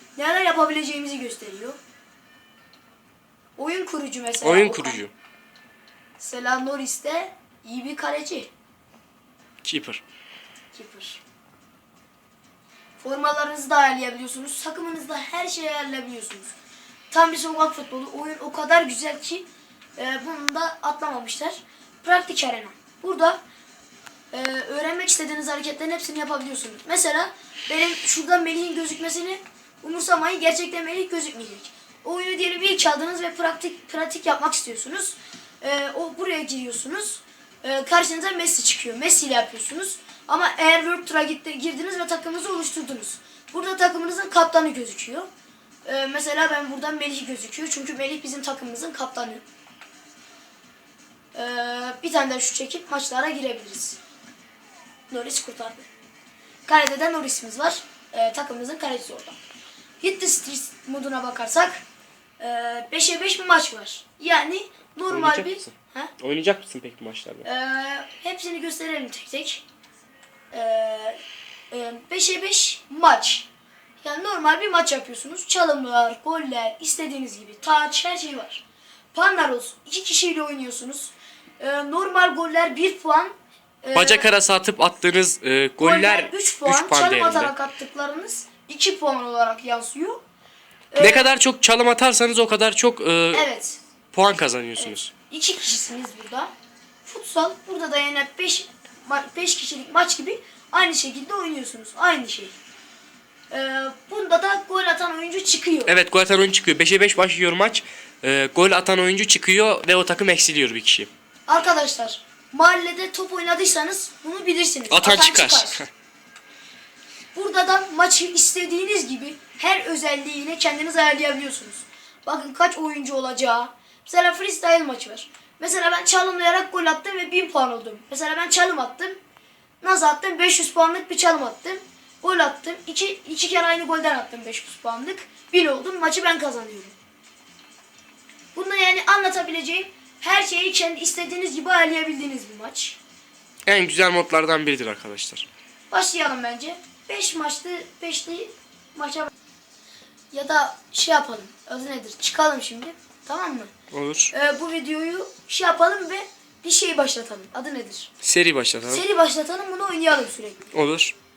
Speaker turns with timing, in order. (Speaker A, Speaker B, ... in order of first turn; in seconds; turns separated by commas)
Speaker A: 0.2-1.8, Speaker A: 3.6-5.0, Speaker B: 4.4-5.1, Speaker A: 6.2-8.5, Speaker B: 9.6-10.0, Speaker A: 10.7-11.2, Speaker A: 13.0-16.5, Speaker A: 17.1-23.4, Speaker A: 24.3-45.3, Speaker A: 45.9-49.4, Speaker A: 51.3-54.0, Speaker A: 55.1-55.9, Speaker A: 56.7-59.4, Speaker A: 60.0-61.8, Speaker A: 62.4-66.1, Speaker B: 65.1-67.5, Speaker A: 67.5-69.7, Speaker A: 70.5-71.2, Speaker A: 71.7-73.5, Speaker A: 74.0-84.3, Speaker B: 83.9-87.5, Speaker A: 85.8-90.2, Speaker A: 90.9-91.4, Speaker B: 91.0-93.5, Speaker A: 93.3-93.8, Speaker B: 94.1-95.1, Speaker A: 94.8-96.5, Speaker A: 97.1-102.5, Speaker A: 103.5-105.9, Speaker B: 105.9-111.1, Speaker A: 111.5-115.8, Speaker B: 114.9-115.9, Speaker A: 117.3-129.2, Speaker A: 129.8-137.0, Speaker A: 138.5-143.0, Speaker B: 143.7-145.5, Speaker A: 145.9-149.3, Speaker A: 150.3-153.7, Speaker B: 153.9-154.3, Speaker A: 154.3-158.1, Speaker B: 158.2-159.1, Speaker A: 158.9-160.7, Speaker B: 160.7-161.2